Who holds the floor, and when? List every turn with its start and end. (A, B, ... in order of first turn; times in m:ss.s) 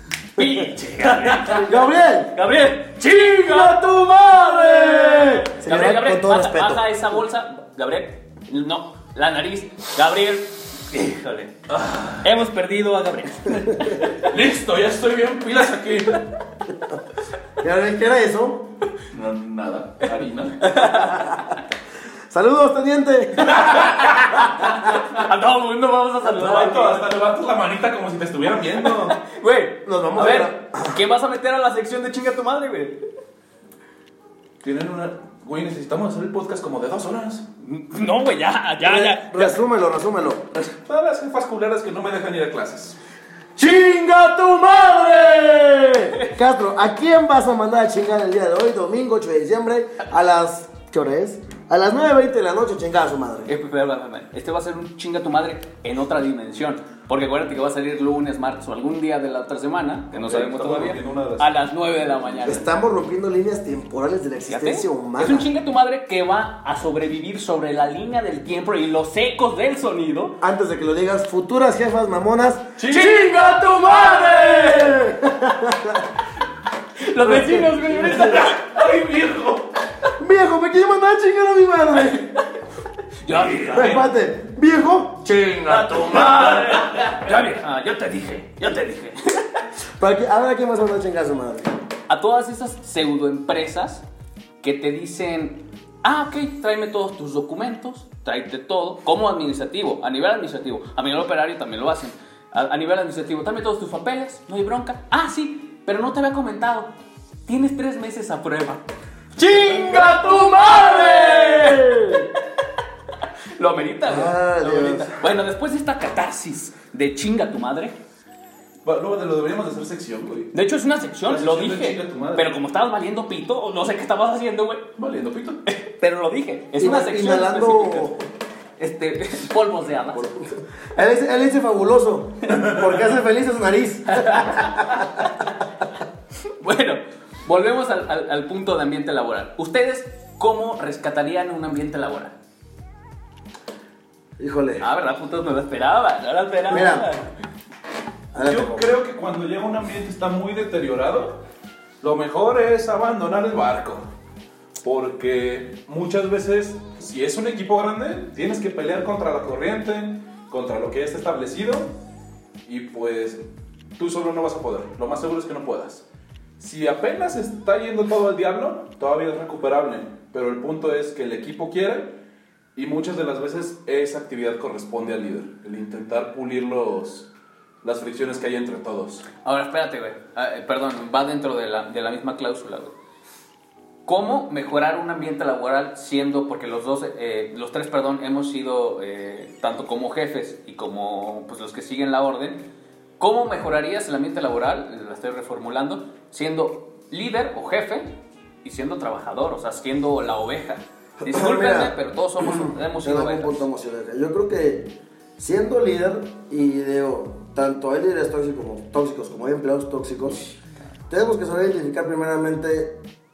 0:00.4-0:11.6 A
0:01.0-0:01.6 B
0:01.6-0:02.4 C
0:03.2-0:06.9 C
0:11.7-0:12.2 B
0:12.2-0:14.3 A
0:13.6-0:14.0 C
0:14.1-0:16.2 B
0:17.6-0:18.7 C
0:19.1-0:20.8 B
0:20.6-0:21.4 A
0:20.9-0:21.6 C
0:22.3-0:24.4 C
0:23.6-0:23.9 A
0:24.7-0:27.1 A
0:26.4-0:29.2 B
0:28.8-0:33.0 A
0:29.8-0:31.0 C
0:34.6-0:37.4 B
0:37.6-0:39.6 A
0:38.8-0:40.6 C
0:40.8-0:43.0 B
0:43.6-0:53.5 C
0:53.5-1:02.7 A
1:00.1-1:01.5 B
1:02.4-1:05.5 C
1:04.5-1:10.4 A
1:10.4-1:16.1 C
1:12.8-1:13.2 B
1:12.9-1:15.1 A
1:17.0-1:19.1 A
1:17.2-1:18.4 C
1:18.2-1:19.7 B
1:20.2-1:22.3 C
1:23.2-1:24.0 A
1:23.3-1:24.0 B
1:23.7-1:26.7 C
1:25.7-1:29.4 A
1:26.1-1:27.1 B
1:30.0-1:31.8 C
1:32.1-1:34.0 A
1:34.6-1:46.9 A
1:47.5-1:48.8 A
1:49.4-1:52.6 A
1:49.4-1:52.3 C
1:53.6-1:58.0 A
1:54.1-1:55.2 C
1:58.8-2:00.5 B
2:00.5-2:04.9 A
2:01.2-2:02.6 B
2:05.0-2:05.6 B
2:05.7-2:08.1 A
2:06.8-2:08.2 C
2:08.8-2:10.3 A
2:10.1-2:15.2 C
2:14.1-2:15.0 A
2:16.6-2:22.3 A
2:24.4-2:24.8 C
2:24.8-2:27.3 A
2:26.7-2:27.1 C
2:28.3-2:28.9 C
2:28.4-2:31.4 B
2:32.0-2:34.1 B
2:34.8-2:42.0 B
2:42.6-2:43.4 B
2:44.0-2:46.0 B
2:46.6-2:52.2 B
2:52.8-2:57.3 B
2:57.8-2:59.2 B
2:59.4-3:02.9 A
3:04.1-3:12.6 A
3:13.2-3:23.6 A
3:21.2-3:30.4 C
3:31.1-3:33.0 C